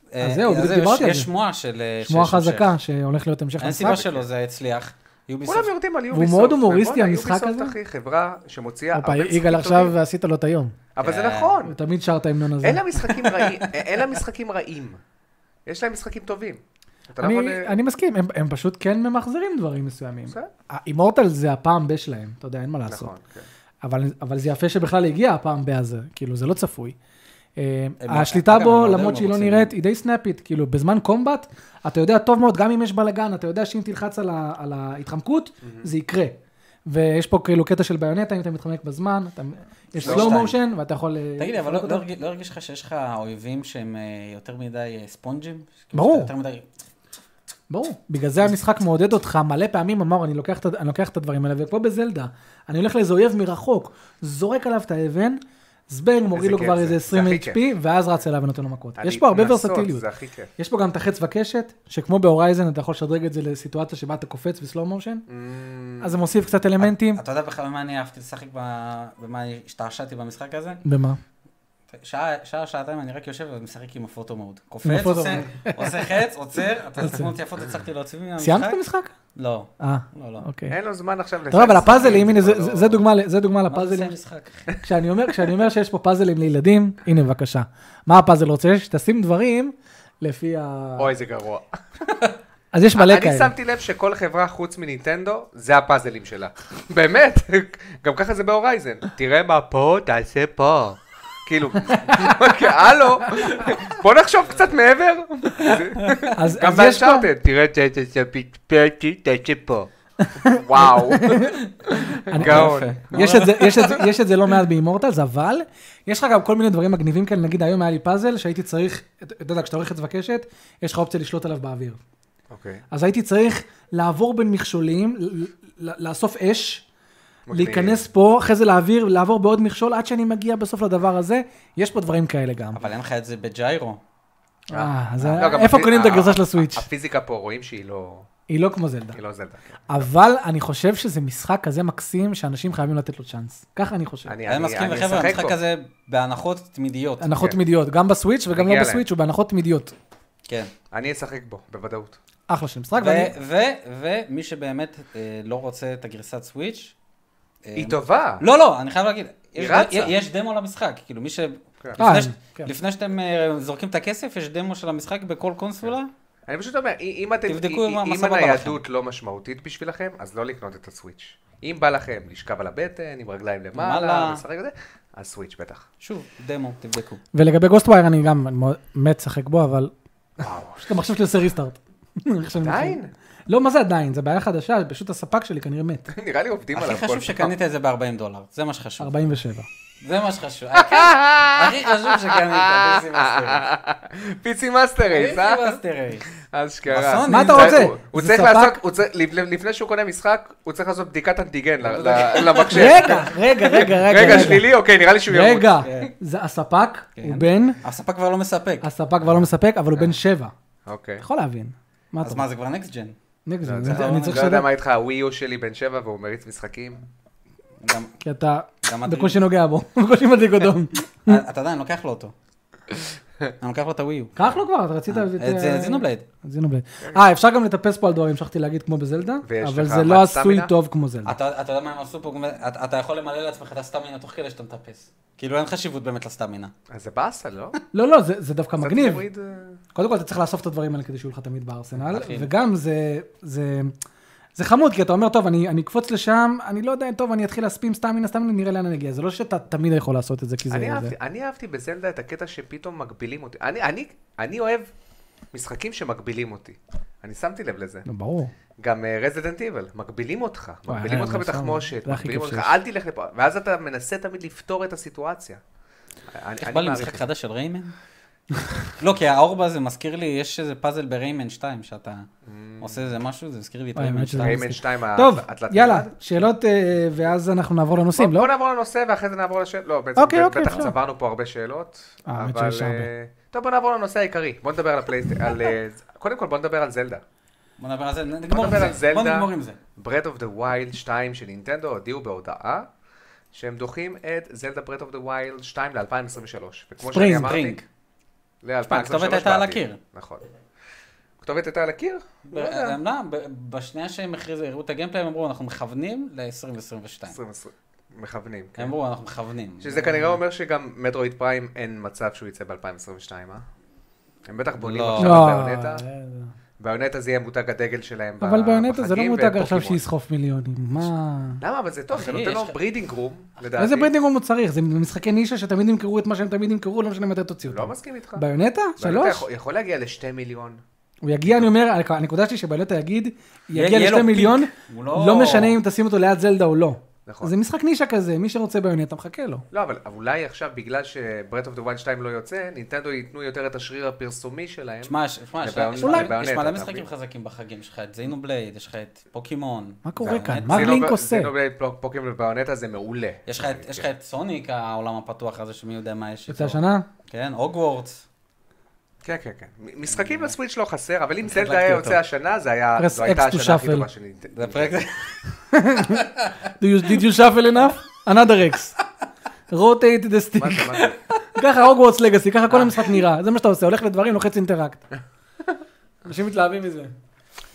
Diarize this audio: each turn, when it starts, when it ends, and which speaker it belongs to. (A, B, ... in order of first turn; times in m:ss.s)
0:00.1-0:02.7 A
0:00.2-0:01.3 B
0:02.0-0:04.0 B
0:03.6-0:05.7 A
0:03.8-0:04.3 C
0:05.4-0:10.0 C
0:06.1-0:07.8 B
0:08.9-0:10.8 B
0:11.0-0:11.8 C
0:11.0-0:11.6 A
0:11.6-0:13.2 B
0:12.6-0:15.0 C
0:15.7-0:17.8 C
0:17.2-0:23.1 B
0:22.9-0:23.5 C
0:23.8-0:27.0 B
0:27.6-0:42.0 B
0:28.0-0:29.7 A
0:35.6-0:35.9 C
0:40.0-0:40.6 A
0:40.0-0:40.5 C
0:41.4-0:46.7 A
0:45.9-0:46.3 B
0:47.7-1:00.0 B
0:56.3-0:57.6 C
0:59.0-1:00.5 C
1:00.6-1:05.2 B
1:05.3-1:06.2 C
1:06.0-1:07.2 B
1:06.8-1:10.8 A
1:10.8-1:11.2 B
1:11.9-1:18.8 A
1:14.8-1:16.0 B
1:17.0-1:17.3 B
1:18.4-1:19.1 B
1:19.4-1:20.4 A
1:19.8-1:20.8 B
1:20.7-1:23.0 C
1:21.5-1:24.1 B
1:23.7-1:24.7 A
1:24.8-1:31.1 B
1:31.0-1:31.7 C
1:32.7-1:33.5 B
1:33.0-1:49.9 C
1:41.9-1:42.5 B
1:46.0-1:46.3 A
1:46.3-1:47.3 B
1:50.2-2:02.0 B
1:50.4-1:54.0 C
1:52.4-1:53.8 A
2:02.5-2:02.8 C
2:02.9-2:06.9 B
2:07.5-2:08.0 C
2:07.5-2:12.8 B
2:12.8-2:14.0 A
2:14.7-2:16.9 B
2:14.7-2:18.3 C
2:18.5-2:19.2 B
2:19.1-2:20.1 C
2:19.9-2:24.4 B
2:24.3-2:25.6 C
2:24.5-2:27.3 A
2:27.2-2:29.9 B
2:28.5-2:29.0 C
2:30.5-2:30.7 A
2:30.9-2:32.2 C
2:32.5-2:33.3 B
2:33.0-2:37.0 A
2:37.6-2:46.1 A
2:37.8-2:38.4 C
2:39.6-2:40.2 C
2:42.0-2:42.7 B
2:46.5-2:55.9 C
2:47.5-2:48.8 A
2:53.8-2:54.4 A
2:56.0-2:57.2 A
2:57.3-2:59.9 B
3:00.4-3:01.0 C
3:00.8-3:06.1 B
3:02.6-3:03.1 C
3:06.1-3:07.5 C
3:06.8-3:09.1 A
3:09.0-3:09.7 B
3:10.0-3:13.6 A
3:10.8-3:15.8 C
3:15.0-3:16.3 A
3:16.4-3:26.1 C
3:16.9-3:17.9 A
3:17.3-3:18.8 B
3:21.8-3:23.2 A
3:22.7-3:24.7 B
3:24.2-3:24.6 A
3:25.3-3:27.8 B
3:25.8-3:26.1 A
3:27.2-3:28.9 A
3:28.8-3:30.5 B
3:30.9-3:31.2 C
3:31.2-3:32.4 B
3:32.2-3:33.2 A
3:33.5-3:34.7 B
3:33.6-3:37.1 C
3:33.8-3:34.5 A
3:37.8-3:38.1 A
3:38.2-3:41.4 B
3:38.8-3:39.4 A
3:41.3-3:42.3 A
3:43.6-3:44.4 A
3:44.4-3:51.4 B
3:45.1-3:46.2 A
3:49.4-3:50.7 C
3:51.3-3:56.7 A
3:56.9-3:57.8 C
3:57.9-3:59.2 B
3:58.8-3:59.8 C
3:59.9-4:03.9 B
4:02.0-4:02.5 A
4:04.6-4:11.2 B
4:10.7-4:14.9 C
4:15.5-4:18.0 C
4:18.1-4:18.5 B
4:18.8-4:25.6 C
4:20.9-4:22.7 B
4:26.3-4:27.2 C
4:26.6-4:27.9 A
4:29.0-4:32.3 A
4:32.4-4:33.1 C
4:32.8-4:34.6 A
4:34.0-4:38.5 B
4:34.4-4:36.2 C
4:38.2-4:47.2 C
4:40.2-4:41.0 B
4:42.3-4:43.1 B
4:47.8-4:49.8 A
4:48.5-4:52.9 C
4:53.5-4:57.8 C
4:57.1-4:57.6 B
4:57.3-4:57.8 A
4:58.6-5:00.5 C
4:58.9-5:00.0 A
5:01.4-5:03.0 C
5:02.5-5:07.4 A
5:07.3-5:09.0 C
5:08.8-5:10.4 A
5:09.8-5:13.6 C
5:14.5-5:16.0 C
5:14.8-5:15.5 A
5:15.2-5:16.5 B
5:16.8-5:20.0 C
5:18.4-5:21.6 B
5:21.6-5:24.1 C
5:22.1-5:22.8 A
5:23.8-5:29.4 B
5:27.7-5:28.4 C
5:29.0-5:30.8 C
5:31.2-5:39.6 B
5:33.7-5:35.8 A
5:37.3-5:37.5 C
5:39.7-5:47.1 C
5:45.0-5:51.0 A
5:46.0-5:46.3 B
5:50.0-5:51.5 B
5:50.2-5:54.1 C
5:53.5-5:58.2 A
5:56.5-5:57.1 B
5:59.2-6:05.1 C
6:00.2-6:00.5 A
6:01.4-6:02.2 A
6:03.0-6:04.1 B
6:04.6-6:05.4 A
6:05.7-6:09.0 B
6:09.7-6:15.0 B
6:10.6-6:11.2 C
6:12.7-6:13.1 A
6:16.2-6:17.1 B